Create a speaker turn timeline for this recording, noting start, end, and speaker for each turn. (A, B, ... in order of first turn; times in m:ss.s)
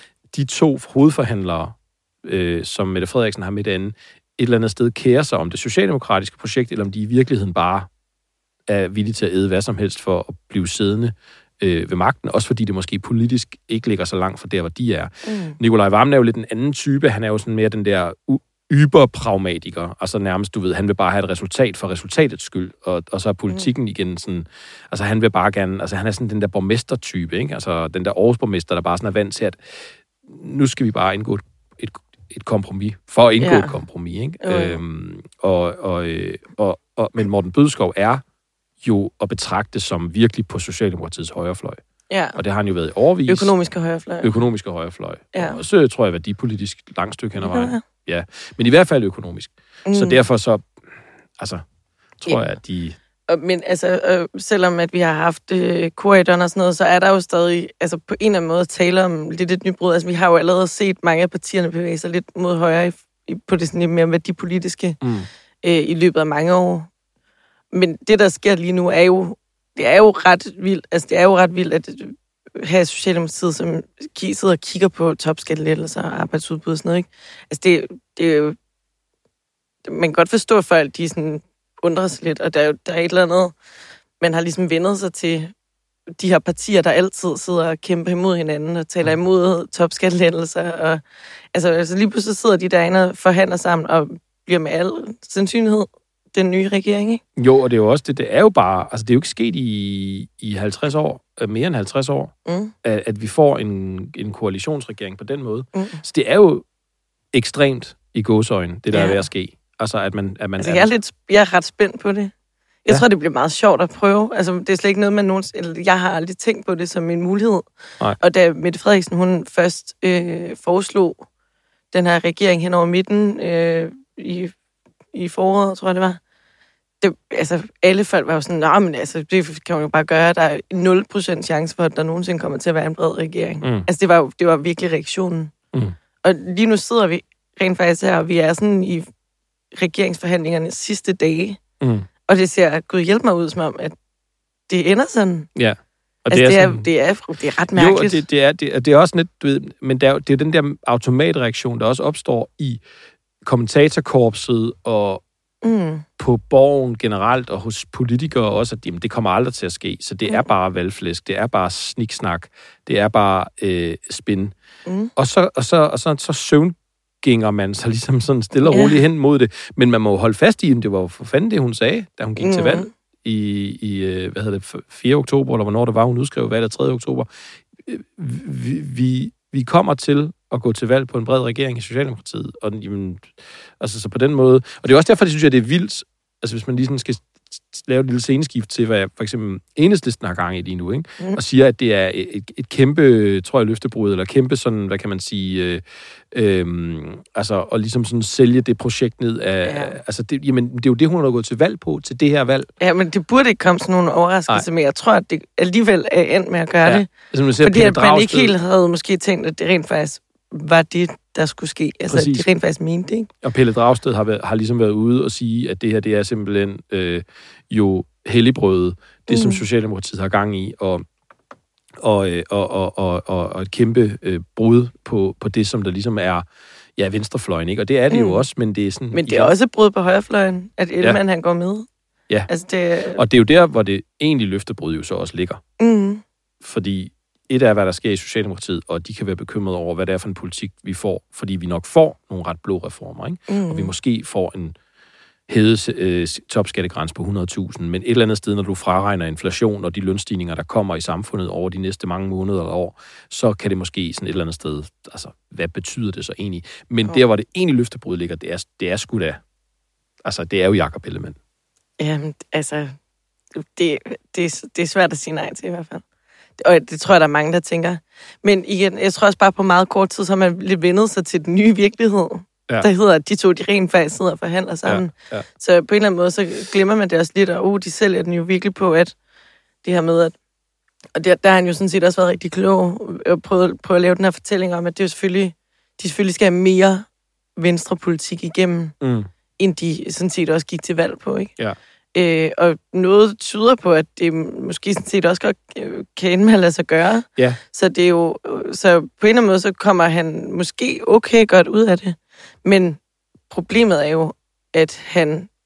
0:00.3-0:07.9 A
0:08.7-0:29.6 A
0:15.2-0:15.6 B
0:30.3-0:38.2 A
0:33.4-0:33.7 B
0:34.4-0:34.8 B
0:38.8-0:41.8 A
0:42.1-0:42.4 B
0:42.4-0:43.5 A
0:43.3-0:44.4 B
0:44.2-0:50.6 A
0:45.3-0:45.6 B
0:47.4-0:47.8 B
0:49.9-0:50.2 B
0:52.2-0:53.0 A
0:53.3-1:05.0 B
1:05.0-1:05.3 A
1:05.6-1:06.9 B
1:07.7-1:18.6 B
1:19.8-1:23.5 B
1:24.2-1:25.5 B
1:26.2-1:31.0 B
1:31.5-1:37.2 B
1:37.4-1:46.6 A
1:42.5-1:42.7 B
1:45.8-1:46.0 B
1:47.3-1:50.9 A
1:48.9-1:49.2 B
1:50.6-1:52.3 B
1:52.8-1:57.7 B
1:58.2-2:01.2 B
2:01.9-2:04.5 B
2:05.1-2:06.2 B
2:07.0-2:15.5 B
2:13.6-2:13.9 A
2:16.2-2:19.1 B
2:19.7-2:21.6 B
2:21.8-2:22.1 A
2:22.3-2:24.0 B
2:24.7-2:25.5 B
2:25.6-2:26.9 A
2:26.3-2:28.2 B
2:27.8-2:32.8 A
2:33.4-2:35.2 A
2:35.6-2:36.0 B
2:36.2-2:44.5 A
2:44.9-2:45.1 B
2:45.2-2:57.3 A
2:48.7-2:49.0 B
2:52.4-2:52.9 B
2:57.8-3:22.7 A
3:19.6-3:20.0 B
3:22.8-3:27.1 B
3:26.9-3:28.6 A
3:27.6-3:33.3 B
3:32.1-3:32.5 A
3:33.4-3:41.0 A
3:39.3-3:39.6 B
3:42.0-3:46.4 A
3:47.0-3:49.5 A
3:48.1-3:48.4 B
3:49.1-3:51.9 B
3:52.5-3:53.2 B
3:53.2-3:55.6 A
3:55.8-3:56.2 B
3:56.6-4:04.8 A
4:03.5-4:03.9 B
4:05.5-4:19.4 A
4:20.2-4:21.4 A
4:22.0-4:23.0 B
4:23.6-4:26.0 B
4:26.6-4:39.2 B
4:34.9-4:35.4 A
4:39.8-4:40.4 B
4:41.2-4:49.0 B
4:49.0-4:49.3 A
4:49.6-4:51.5 B
4:52.2-5:03.0 B
5:03.5-5:05.5 B